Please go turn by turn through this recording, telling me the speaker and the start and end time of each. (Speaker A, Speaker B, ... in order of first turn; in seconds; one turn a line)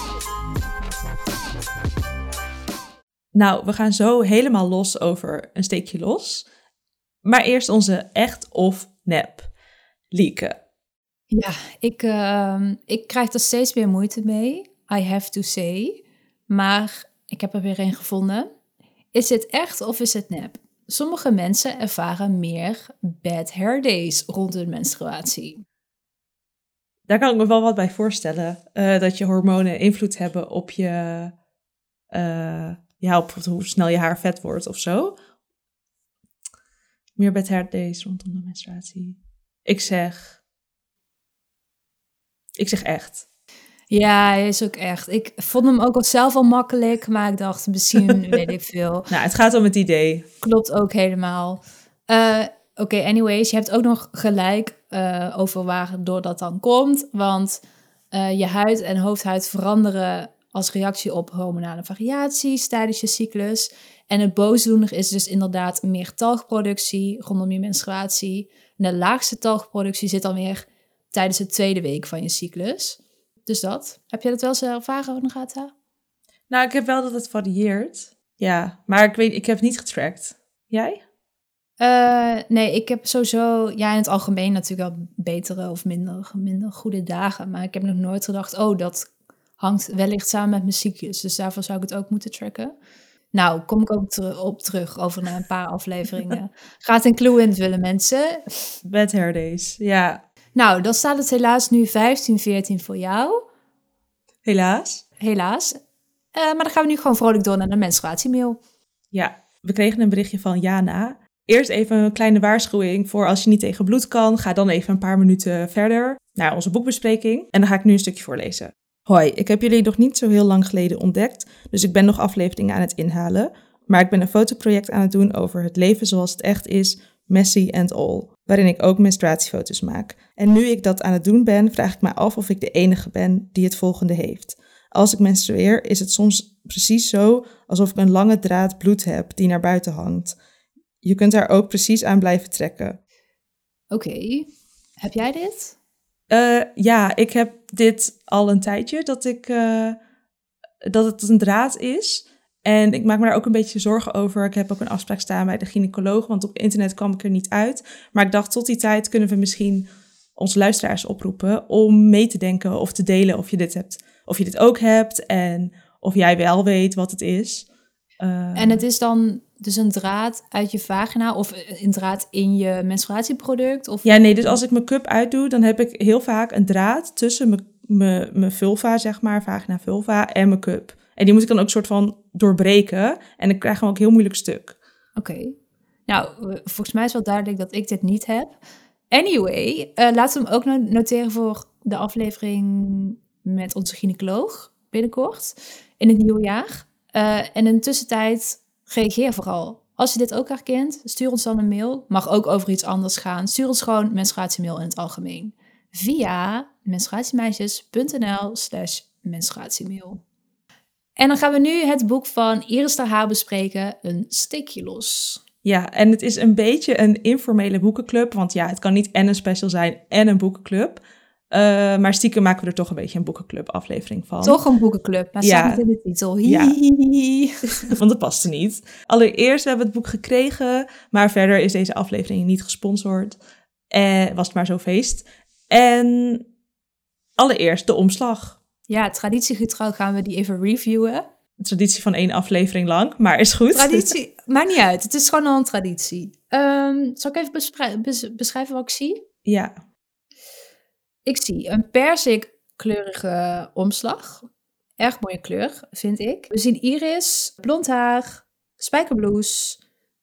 Speaker A: 3.3-6.5
Speaker A: 7.2-9.5
Speaker A: 10.1-10.6
Speaker B: 11.3-18.5
Speaker B: 19.1-25.6
Speaker A: 27.1-31.3
Speaker A: 32.1-35.2
Speaker A: 37.2-40.4
Speaker A: 42.6-43.2
Speaker B: 43.9-49.1
Speaker A: 49.1-50.2
Speaker B: 50.4-57.6
Speaker B: 58.1-75.7
Speaker A: 76.5-81.0
Speaker B: 81.8-92.7
Speaker B: 93.3-98.7
Speaker A: 98.8-100.2
Speaker B: 100.5-103.4
Speaker A: 104.4-105.0
Speaker B: 105.2-105.8
Speaker B: 106.3-108.6
Speaker A: 109.1-140.4
Speaker A: 141.0-143.0
Speaker B: 143.9-144.5
Speaker B: 145.0-145.8
Speaker A: 146.3-150.0
Speaker A: 150.8-167.7
Speaker A: 168.2-168.8
Speaker B: 168.5-174.6
Speaker A: 174.0-184.8
Speaker B: 185.2-185.6
Speaker B: 186.1-188.6
Speaker B: 189.1-210.2
Speaker B: 211.2-215.4
Speaker A: 215.6-224.6
Speaker B: 224.4-227.9
Speaker A: 225.4-225.8
Speaker A: 226.4-226.8
Speaker A: 227.7-233.4
Speaker A: 233.9-236.4
Speaker A: 237.4-238.6
Speaker B: 238.9-241.3
Speaker A: 241.6-244.1
Speaker B: 243.7-249.2
Speaker A: 249.4-249.7
Speaker B: 251.3-254.5
Speaker B: 255.0-259.8